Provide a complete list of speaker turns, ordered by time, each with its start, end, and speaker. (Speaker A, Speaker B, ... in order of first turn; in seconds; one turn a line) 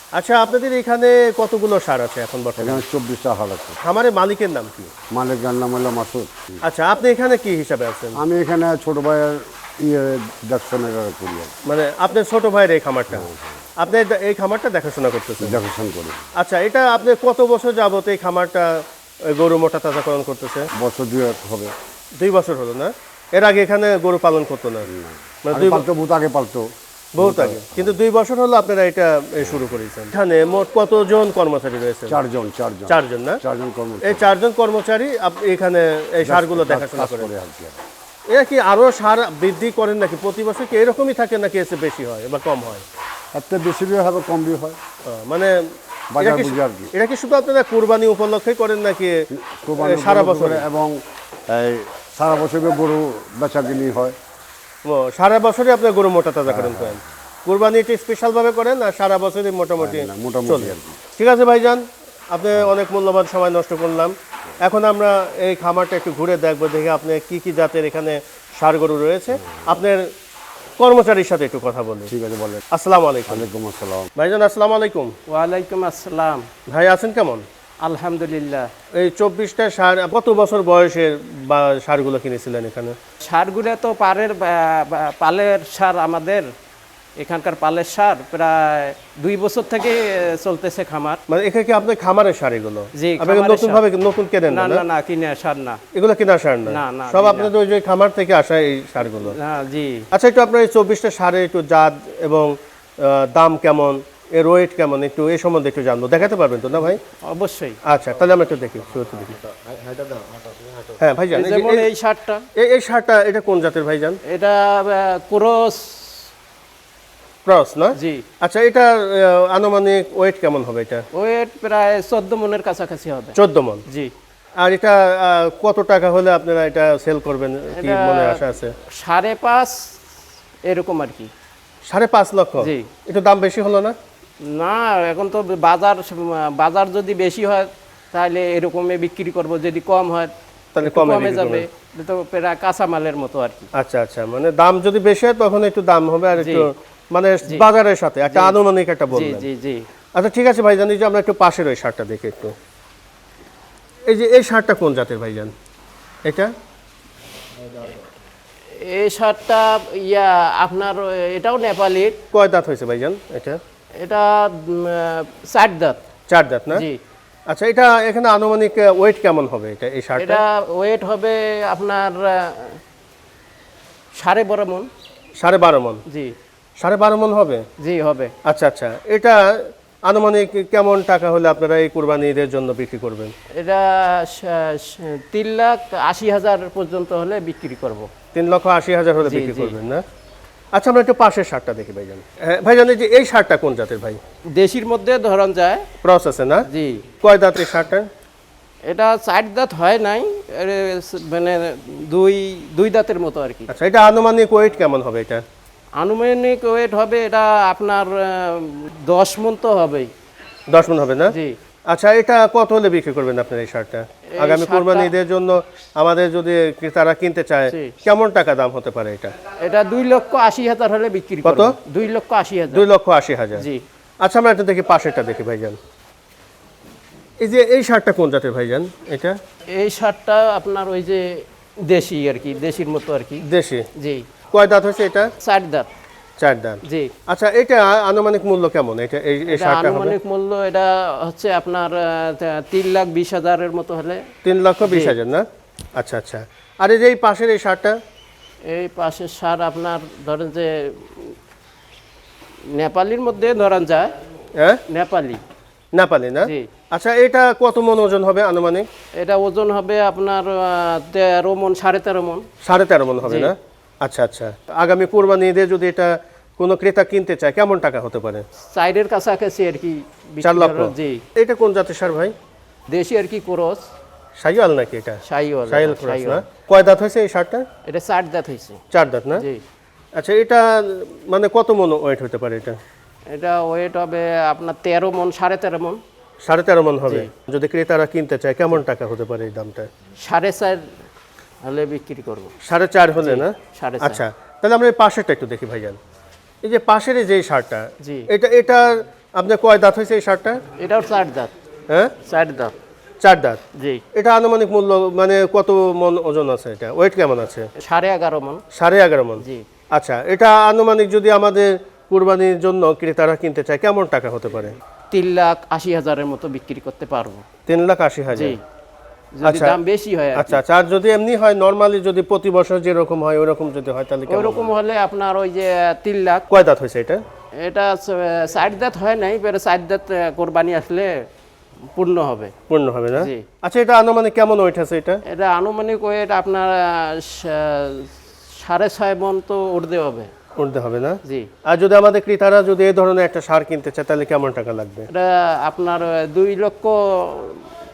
Speaker A: 0.1-2.8
Speaker B: 2.6-3.8
Speaker A: 3.8-4.9
Speaker B: 5.1-6.3
Speaker A: 6.6-8.2
Speaker B: 8.2-11.5
Speaker A: 11.7-13.3
Speaker B: 13.1-13.6
Speaker A: 13.8-15.6
Speaker B: 15.4-16.3
Speaker A: 16.4-20.7
Speaker B: 20.8-21.7
Speaker A: 22.2-24.9
Speaker B: 24.9-28.0
Speaker A: 25.5-25.9
Speaker A: 27.2-32.2
Speaker B: 32.1-34.3
Speaker A: 32.9-33.4
Speaker A: 34.0-37.3
Speaker B: 36.2-37.8
Speaker A: 38.3-42.8
Speaker B: 43.3-44.8
Speaker A: 45.1-45.6
Speaker B: 46.1-46.9
Speaker A: 46.2-49.1
Speaker B: 49.3-54.2
Speaker A: 49.8-50.6
Speaker A: 54.9-70.1
Speaker B: 56.5-57.0
Speaker B: 59.8-61.0
Speaker A: 70.8-72.1
Speaker B: 72.1-72.6
Speaker A: 72.7-73.5
Speaker B: 73.3-74.1
Speaker A: 74.2-75.1
Speaker C: 75.3-76.5
Speaker A: 76.7-77.5
Speaker C: 77.8-78.7
Speaker A: 79.0-83.0
Speaker C: 83.2-86.5
Speaker C: 87.2-91.2
Speaker A: 91.3-94.8
Speaker C: 93.0-93.8
Speaker C: 94.5-95.8
Speaker A: 95.9-99.4
Speaker C: 96.7-97.5
Speaker C: 99.2-100.1
Speaker A: 100.1-107.0
Speaker C: 107.3-107.8
Speaker A: 107.9-109.3
Speaker A: 111.0-111.9
Speaker C: 111.3-112.5
Speaker A: 112.6-114.2
Speaker C: 114.3-116.3
Speaker A: 117.5-121.1
Speaker C: 118.0-118.2
Speaker C: 121.1-123.3
Speaker A: 123.4-123.8
Speaker A: 124.6-128.7
Speaker C: 127.8-130.0
Speaker C: 130.7-131.3
Speaker A: 131.9-133.9
Speaker C: 132.6-132.9
Speaker C: 134.4-143.7
Speaker A: 140.8-141.7
Speaker A: 143.8-149.5
Speaker C: 146.4-146.7
Speaker C: 148.3-148.6
Speaker C: 149.1-149.8
Speaker A: 150.2-152.5
Speaker A: 154.1-155.5
Speaker A: 156.2-156.5
Speaker C: 158.7-162.2
Speaker A: 162.3-163.6
Speaker C: 164.0-166.0
Speaker A: 166.3-166.8
Speaker C: 166.7-167.0
Speaker A: 167.5-170.4
Speaker C: 170.2-172.8
Speaker C: 174.2-174.9
Speaker A: 175.4-176.0
Speaker C: 176.1-176.3
Speaker A: 176.8-177.6
Speaker C: 177.8-178.3
Speaker A: 178.5-183.3
Speaker C: 183.6-188.1
Speaker A: 188.3-190.0
Speaker C: 189.2-189.7
Speaker A: 190.7-194.2
Speaker C: 194.5-195.9
Speaker A: 196.0-196.7
Speaker C: 196.7-197.1
Speaker A: 197.2-198.1
Speaker C: 198.9-203.7
Speaker A: 203.7-205.4
Speaker C: 206.0-210.1
Speaker A: 210.7-211.3
Speaker C: 211.3-211.6
Speaker A: 211.9-219.3
Speaker C: 214.3-215.1
Speaker C: 217.7-217.9
Speaker C: 219.6-222.8
Speaker A: 221.4-221.8
Speaker A: 222.7-223.7
Speaker C: 223.6-223.8
Speaker A: 224.2-225.8
Speaker A: 227.4-229.4
Speaker C: 229.7-233.4
Speaker A: 233.5-233.9
Speaker C: 234.0-234.2
Speaker A: 234.5-235.3
Speaker C: 235.4-235.9
Speaker A: 236.4-240.2
Speaker C: 236.8-237.1
Speaker C: 239.5-244.3
Speaker A: 244.4-248.0
Speaker C: 244.8-245.2
Speaker C: 248.7-251.3
Speaker C: 252.7-254.1
Speaker C: 254.9-255.4
Speaker A: 255.9-258.9
Speaker C: 259.2-262.5
Speaker A: 262.6-268.4
Speaker C: 263.2-263.5
Speaker C: 268.6-271.2
Speaker A: 270.4-272.3
Speaker C: 272.9-273.9
Speaker A: 274.4-277.6
Speaker C: 275.2-276.4
Speaker C: 277.9-278.8
Speaker A: 278.9-279.4
Speaker C: 279.4-279.6
Speaker A: 280.1-282.8
Speaker C: 283.3-286.0
Speaker A: 286.4-289.9
Speaker C: 290.2-290.9
Speaker C: 291.6-292.5
Speaker A: 292.7-296.0
Speaker C: 293.2-294.2
Speaker A: 296.6-300.6
Speaker C: 298.0-298.3
Speaker C: 300.8-301.5
Speaker A: 301.9-302.1
Speaker C: 302.2-302.8
Speaker A: 303.2-303.6
Speaker C: 303.8-304.0
Speaker A: 304.1-307.7
Speaker C: 307.8-308.6
Speaker A: 308.7-314.8
Speaker C: 315.1-317.4
Speaker A: 317.7-318.6
Speaker C: 318.3-318.6
Speaker C: 319.3-320.6
Speaker A: 319.4-319.8
Speaker A: 320.4-324.7
Speaker C: 324.3-326.5
Speaker A: 326.5-327.2
Speaker C: 327.6-331.1
Speaker C: 331.9-332.5
Speaker A: 332.7-335.2
Speaker C: 335.3-340.3
Speaker A: 340.6-345.1
Speaker C: 345.1-347.7